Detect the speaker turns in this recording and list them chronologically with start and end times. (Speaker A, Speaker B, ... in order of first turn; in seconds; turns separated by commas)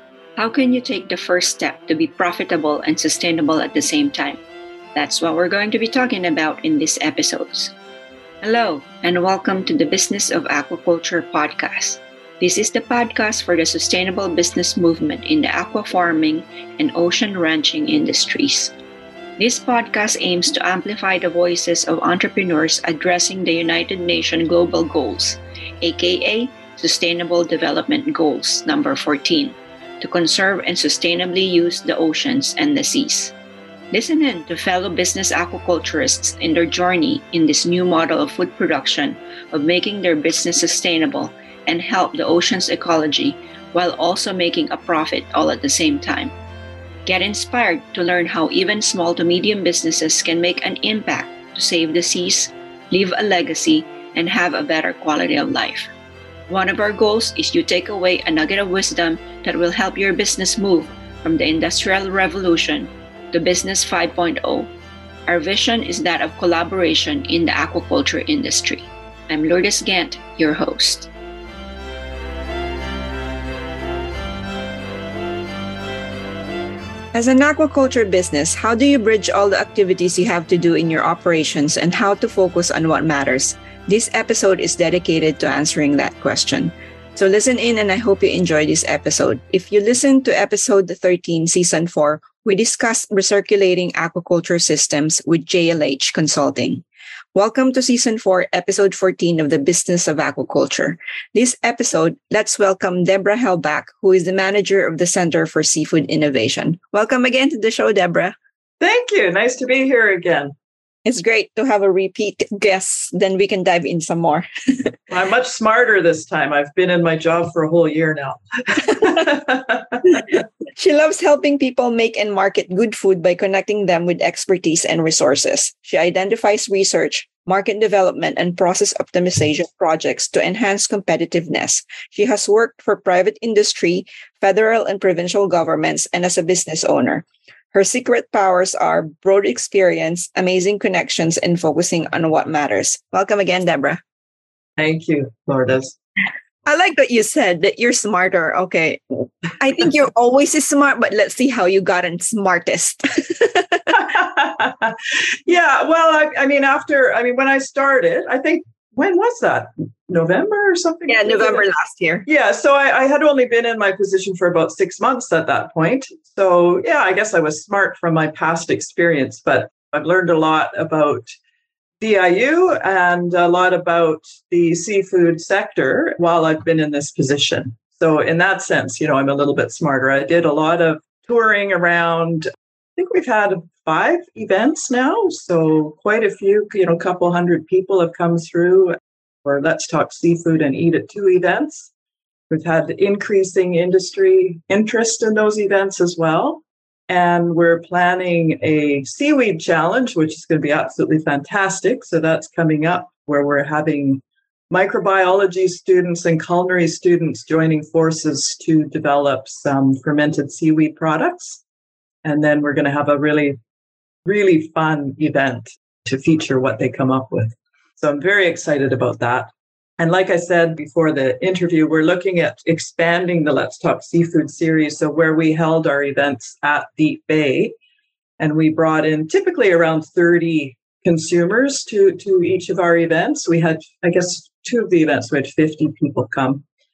Speaker A: 0.4-4.4, Speaker A: 5.0-7.7, Speaker A: 8.4-18.8, Speaker A: 19.4-33.3, Speaker A: 33.9-46.4, Speaker A: 47.1-55.9, Speaker A: 56.5-64.7, Speaker A: 65.3-71.1, Speaker A: 77.1-108.3, Speaker B: 108.8-110.5, Speaker A: 111.0-114.9, Speaker B: 115.1-120.2, Speaker A: 120.8-144.0, Speaker B: 144.8-146.0, Speaker A: 146.7-154.0, Speaker B: 153.9-154.9, Speaker B: 155.5-161.7, Speaker A: 161.1-162.2, Speaker B: 162.3-171.3, Speaker B: 172.0-182.5, Speaker B: 183.0-191.9, Speaker B: 192.5-211.6, Speaker B: 212.2-213.6, Speaker B: 214.2-227.8, Speaker B: 228.4-236.6